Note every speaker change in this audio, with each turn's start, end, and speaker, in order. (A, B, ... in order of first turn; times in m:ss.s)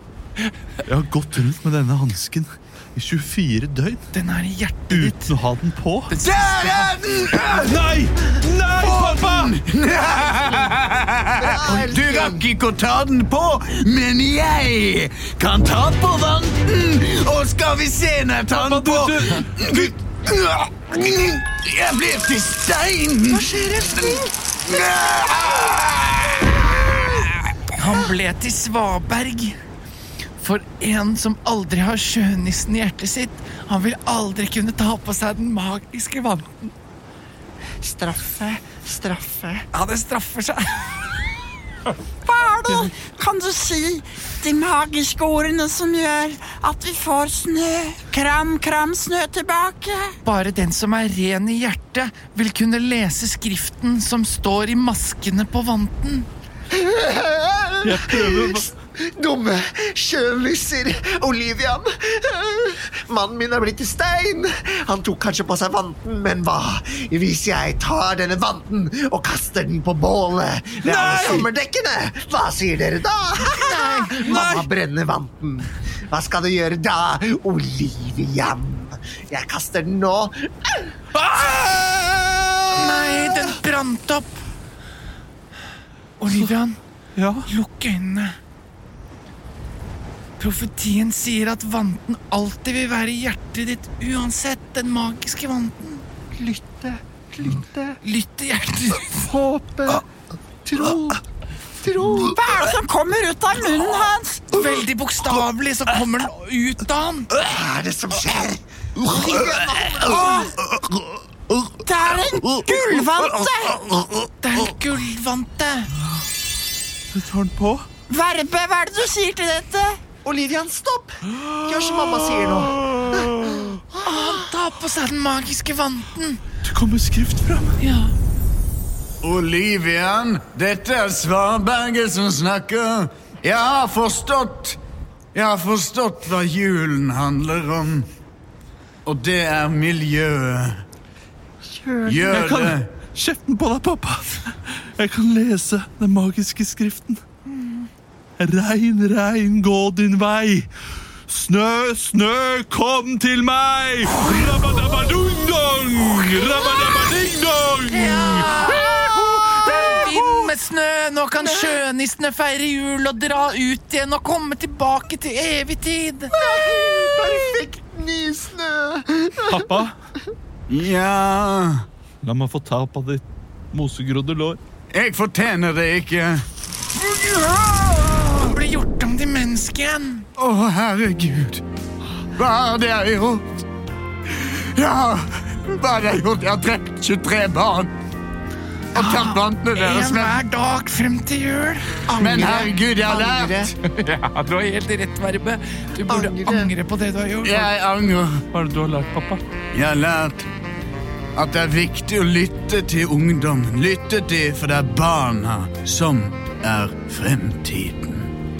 0:00.8-0:04.1 A
0:04.1-0:05.3 B
0:04.9-0:06.1 A
0:06.1-0:06.9 B
0:06.2-0:07.8 C
0:07.4-0:09.6 A
0:08.7-0:27.4 C
0:11.4-0:12.4 D
0:18.5-0:19.9 A
0:23.3-0:24.3 D
0:27.8-0:29.6 B
0:30.4-0:36.7 B
0:37.8-0:39.6 D
0:39.7-0:41.2 B
0:42.2-0:50.1 E
0:50.2-0:56.3 B
0:56.7-1:21.4 D
0:57.8-0:58.7 A
1:10.8-1:11.5 A
1:13.5-1:14.3 B
1:14.2-1:14.7 A
1:21.2-1:22.1 A
1:22.2-1:22.8 D
1:22.7-1:24.4 B
1:26.2-1:26.8 B
1:27.2-1:27.5 A
1:27.5-1:28.4 B
1:30.4-1:36.0 B
1:36.4-1:38.0 D
1:38.0-1:39.3 B
1:39.2-1:40.0 D
1:40.6-1:41.2 D
1:41.8-1:42.7 D
1:42.2-1:44.6 E
1:44.5-1:47.4 B
1:47.4-1:50.3 D
1:49.0-1:50.5 B
1:50.7-1:51.8 C
1:51.8-1:53.8 E
1:52.4-1:53.0 C
1:54.4-1:55.9 B
1:57.1-1:57.9 A
1:58.1-2:00.0 E
2:00.2-2:04.5 D
2:01.7-2:03.7 A
2:04.0-2:06.4 B
2:06.6-2:07.8 A
2:07.8-2:08.1 B
2:09.2-2:14.8 C
2:15.3-2:18.1 C
2:19.0-2:20.8 C
2:21.7-2:22.4 D
2:22.0-2:22.9 C
2:22.3-2:27.2 A
2:28.4-2:30.7 A
2:31.3-2:38.7 A
2:37.9-2:46.3 B
2:38.7-2:40.5 D
2:41.4-2:41.8 D
2:46.3-2:49.8 D
2:49.5-2:49.9 A
2:50.7-2:51.8 C
2:52.2-2:54.6 A
2:54.9-2:58.5 C
2:58.3-3:00.3 B
3:00.4-3:01.6 C
3:02.4-3:03.6 C
3:04.3-3:07.9 C
3:08.9-3:12.0 B
3:08.9-3:10.4 C
3:12.1-3:13.8 D
3:12.2-3:13.7 C
3:13.8-3:17.7 B
3:16.1-3:16.7 D
3:17.4-3:18.4 C
3:18.5-3:19.4 A
3:19.7-3:20.5 C
3:21.4-3:28.3 C